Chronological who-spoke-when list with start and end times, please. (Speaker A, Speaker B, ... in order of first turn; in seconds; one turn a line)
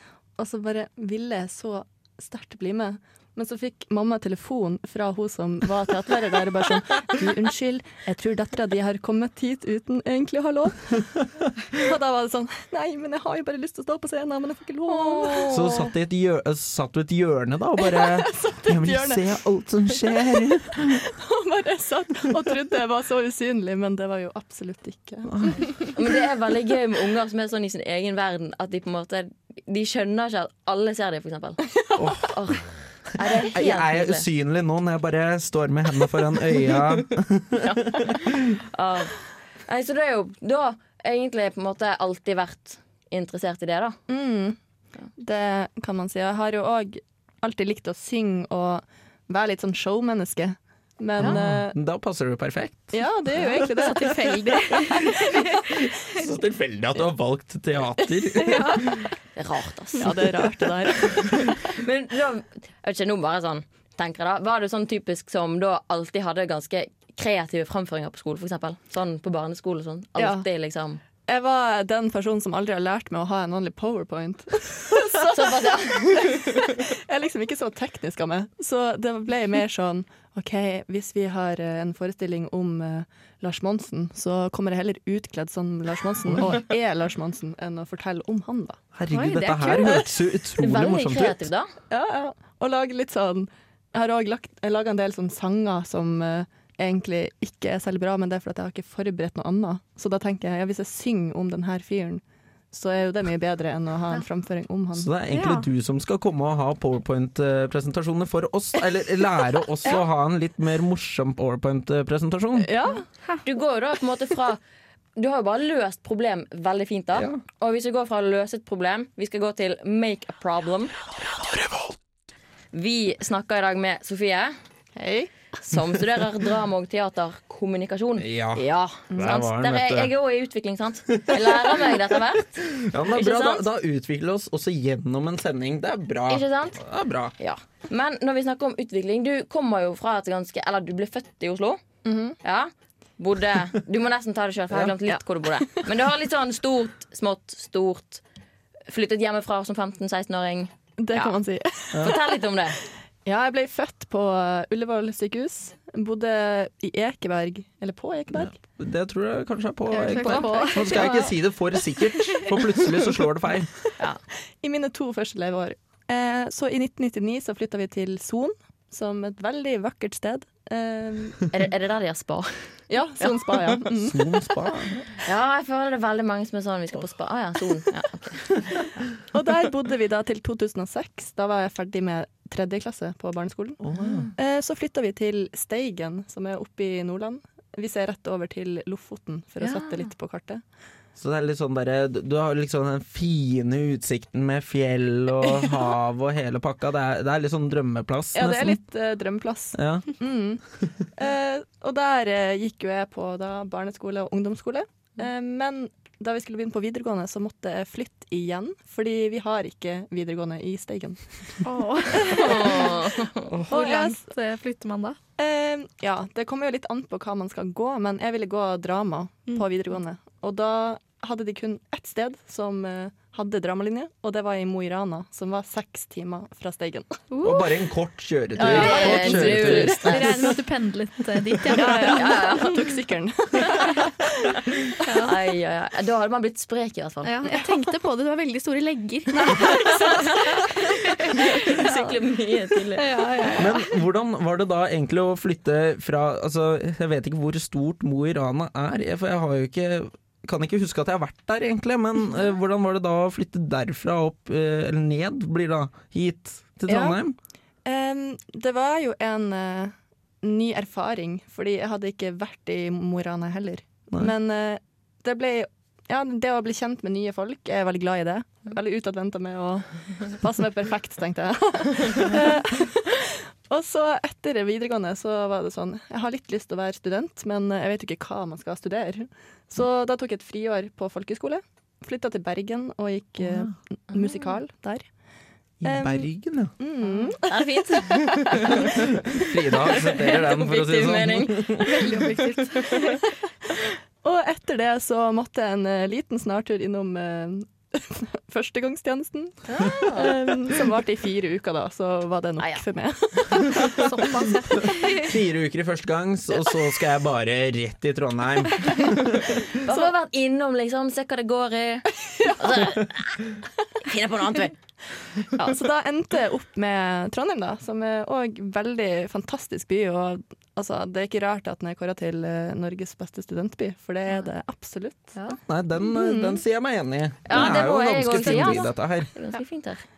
Speaker A: 0.4-11.1
Speaker A: 11.7-15.6
Speaker B: 14.9-15.9
Speaker C: 15.5-21.1
Speaker A: 17.8-19.4
Speaker A: 19.9-26.0
Speaker B: 25.9-31.6
Speaker C: 31.9-32.4
Speaker B: 32.2-34.3
Speaker C: 33.2-38.5
Speaker B: 37.5-44.0
Speaker A: 44.1-44.6
Speaker A: 45.2-51.8
Speaker C: 51.2-53.0
Speaker A: 52.9-55.4
Speaker D: 53.5-55.7
Speaker C: 56.0-58.9
Speaker D: 58.4-59.0
Speaker B: 59.4-60.4
Speaker A: 60.0-61.6
Speaker B: 61.1-71.0
Speaker A: 70.2-70.5
Speaker A: 71.2-88.8
Speaker B: 75.0-76.9
Speaker C: 86.2-86.6
Speaker C: 88.9-91.5
Speaker D: 89.1-90.1
Speaker B: 90.6-91.7
Speaker A: 91.9-105.1
Speaker C: 104.9-112.7
Speaker D: 105.3-105.7
Speaker A: 112.6-113.0
Speaker B: 113.4-114.6
Speaker B: 115.2-120.9
Speaker C: 117.1-117.4
Speaker B: 122.7-124.5
Speaker A: 125.0-125.3
Speaker B: 125.6-133.7
Speaker C: 128.2-130.1
Speaker A: 129.1-129.4
Speaker C: 131.1-137.3
Speaker B: 136.3-136.8
Speaker B: 137.4-141.8
Speaker A: 142.0-142.4
Speaker B: 142.4-148.2
Speaker B: 148.9-151.3
Speaker A: 151.0-152.4
Speaker C: 151.9-152.2
Speaker B: 152.0-152.8
Speaker A: 153.2-158.6
Speaker C: 158.3-163.7
Speaker D: 159.9-161.3
Speaker A: 160.0-161.3
Speaker A: 164.6-171.4
Speaker B: 171.5-172.7
Speaker A: 172.9-174.4
Speaker B: 173.2-173.5
Speaker C: 173.8-174.9
Speaker B: 175.2-178.6
Speaker A: 179.3-183.8
Speaker C: 183.8-184.3
Speaker B: 184.0-184.3
Speaker A: 184.3-190.6
Speaker B: 189.6-189.9
Speaker C: 191.2-198.8
Speaker A: 195.4-195.8
Speaker A: 198.3-211.2
Speaker C: 199.7-200.1
Speaker D: 211.6-212.9
Speaker A: 212.1-214.2
Speaker B: 212.3-213.5
Speaker D: 213.6-215.2
Speaker A: 215.4-227.2
Speaker D: 227.3-227.7
Speaker C: 227.4-230.1
Speaker A: 228.6-230.5
Speaker B: 228.6-230.3
Speaker D: 229.7-232.6
Speaker A: 231.7-234.5
Speaker B: 231.8-232.9
Speaker B: 235.0-237.4
Speaker D: 237.2-242.0
Speaker A: 239.5-240.1
Speaker B: 239.6-243.1
Speaker D: 242.9-244.0
Speaker C: 243.6-257.4
Speaker A: 256.9-257.2
Speaker A: 257.8-285.1
Speaker C: 283.4-283.7
Speaker C: 285.8-286.7
Speaker A: 285.8-289.1
Speaker B: 287.0-292.0
Speaker C: 288.9-292.0
Speaker D: 291.8-293.2
Speaker A: 294.2-304.3
Speaker B: 299.7-300.3
Speaker B: 302.6-302.8
Speaker D: 303.8-305.3
Speaker C: 304.8-309.6
Speaker B: 309.7-313.4
Speaker A: 309.8-310.1
Speaker A: 312.4-312.9
Speaker B: 314.0-314.8
Speaker A: 315.6-325.4
Speaker C: 325.7-329.3
Speaker A: 326.0-326.6
Speaker B: 327.4-330.0
Speaker D: 328.4-328.7